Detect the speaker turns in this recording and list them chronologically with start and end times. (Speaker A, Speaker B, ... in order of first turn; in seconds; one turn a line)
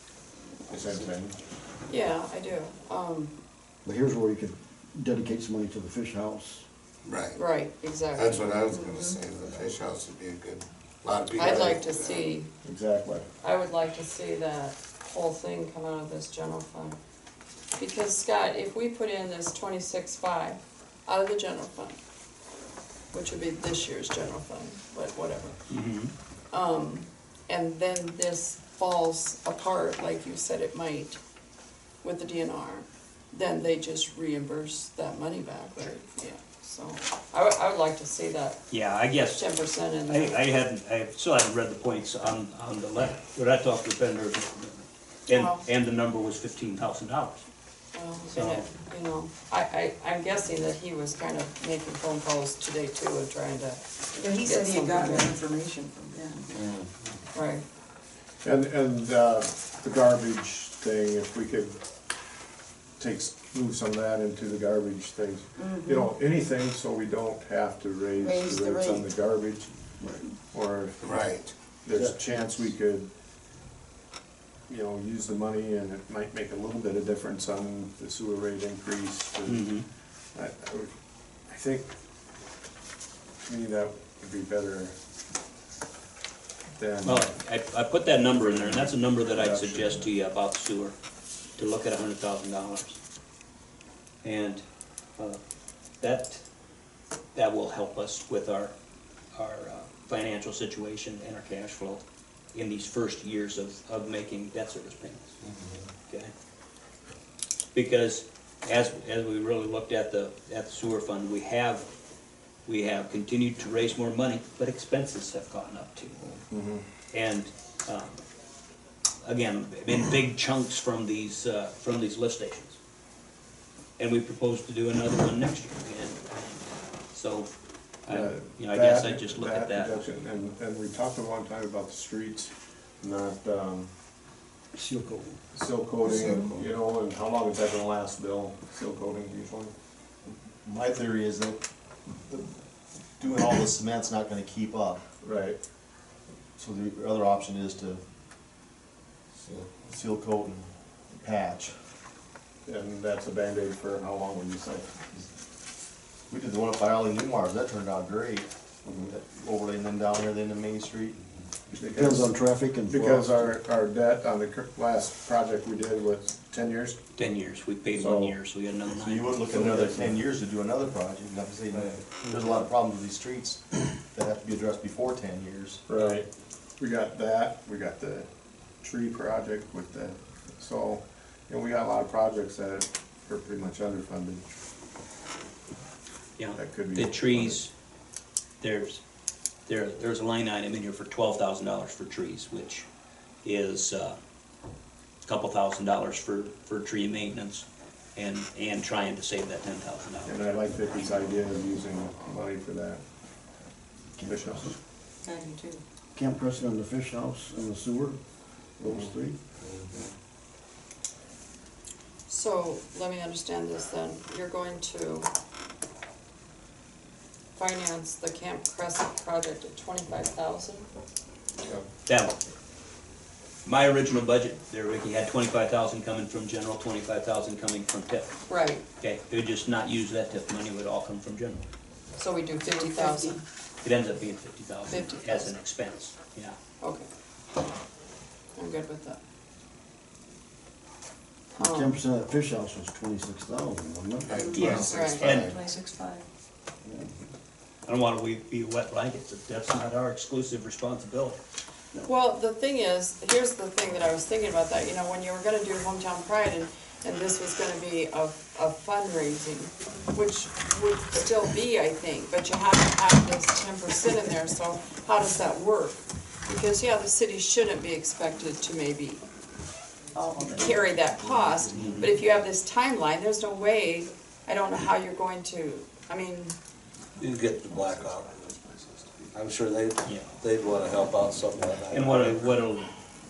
Speaker A: 0.7-1.4
Speaker B: 1.9-3.3
Speaker C: 3.8-6.7
Speaker D: 7.0-7.4
Speaker B: 7.3-8.6
Speaker D: 8.1-12.3
Speaker E: 8.8-9.1
Speaker B: 11.3-12.5
Speaker A: 11.4-11.7
Speaker A: 12.6-13.3
Speaker B: 13.4-16.9
Speaker B: 17.8-22.0
Speaker B: 23.1-25.6
Speaker F: 25.7-26.1
Speaker B: 26.5-31.2
Speaker B: 32.0-38.6
Speaker F: 38.7-39.4
Speaker B: 39.3-40.4
Speaker F: 40.0-47.5
Speaker B: 45.3-45.6
Speaker B: 47.9-55.3
Speaker F: 48.3-48.7
Speaker E: 54.2-56.5
Speaker D: 56.5-56.9
Speaker B: 57.3-57.6
Speaker A: 58.4-61.8
Speaker A: 63.0-70.0
Speaker E: 65.6-66.1
Speaker E: 68.2-69.0
Speaker A: 70.5-73.1
Speaker D: 71.0-71.5
Speaker C: 71.9-72.2
Speaker A: 74.7-81.9
Speaker F: 79.4-79.9
Speaker A: 83.4-84.9
Speaker A: 86.8-87.3
Speaker F: 87.0-90.9
Speaker A: 88.8-90.1
Speaker F: 91.6-93.0
Speaker F: 94.2-94.6
Speaker F: 96.0-96.4
Speaker F: 97.3-98.7
Speaker F: 99.3-105.4
Speaker F: 107.7-111.9
Speaker F: 112.7-116.3
Speaker A: 116.5-116.8
Speaker F: 117.1-118.2
Speaker F: 119.2-122.8
Speaker F: 124.0-127.5
Speaker F: 128.0-130.0
Speaker A: 128.1-133.9
Speaker C: 134.7-135.4
Speaker A: 135.5-139.7
Speaker G: 136.3-136.6
Speaker G: 140.6-141.6
Speaker G: 143.2-145.0
Speaker A: 145.2-145.6
Speaker G: 146.6-148.0
Speaker D: 149.4-149.9
Speaker G: 149.8-150.7
Speaker G: 151.2-151.8
Speaker A: 152.6-155.2
Speaker G: 156.3-161.2
Speaker A: 158.8-159.1
Speaker A: 161.7-167.0
Speaker C: 161.9-163.5
Speaker F: 167.2-169.6
Speaker A: 167.9-168.3
Speaker G: 168.9-175.8
Speaker A: 169.6-170.0
Speaker D: 171.7-172.0
Speaker A: 175.9-176.3
Speaker F: 175.9-176.2
Speaker A: 176.8-178.3
Speaker A: 178.8-184.4
Speaker F: 186.4-187.7
Speaker A: 186.5-187.6
Speaker F: 188.6-189.0
Speaker F: 189.7-192.9
Speaker F: 193.4-194.2
Speaker F: 195.2-201.0
Speaker A: 200.2-203.0
Speaker C: 204.1-204.8
Speaker A: 204.3-204.8
Speaker E: 205.2-205.8
Speaker C: 206.1-209.4
Speaker D: 209.7-209.9
Speaker B: 212.3-215.3
Speaker B: 217.5-220.9
Speaker F: 222.1-222.4
Speaker F: 223.6-231.6
Speaker B: 228.5-228.8
Speaker B: 232.2-233.4
Speaker E: 232.7-233.4
Speaker F: 233.8-236.6
Speaker B: 234.9-235.5
Speaker B: 236.8-237.1
Speaker B: 238.6-239.2
Speaker C: 241.5-244.8
Speaker B: 241.6-241.9
Speaker D: 244.3-245.6
Speaker E: 244.5-244.8
Speaker F: 244.5-245.6
Speaker B: 244.9-245.2
Speaker E: 245.4-246.2
Speaker C: 246.8-247.1
Speaker F: 247.8-251.4
Speaker B: 252.0-269.2
Speaker C: 270.1-272.1
Speaker B: 270.5-276.5
Speaker F: 271.8-272.1
Speaker D: 277.2-278.5
Speaker A: 278.7-279.2
Speaker D: 279.3-282.4
Speaker F: 280.0-280.3
Speaker F: 281.9-282.9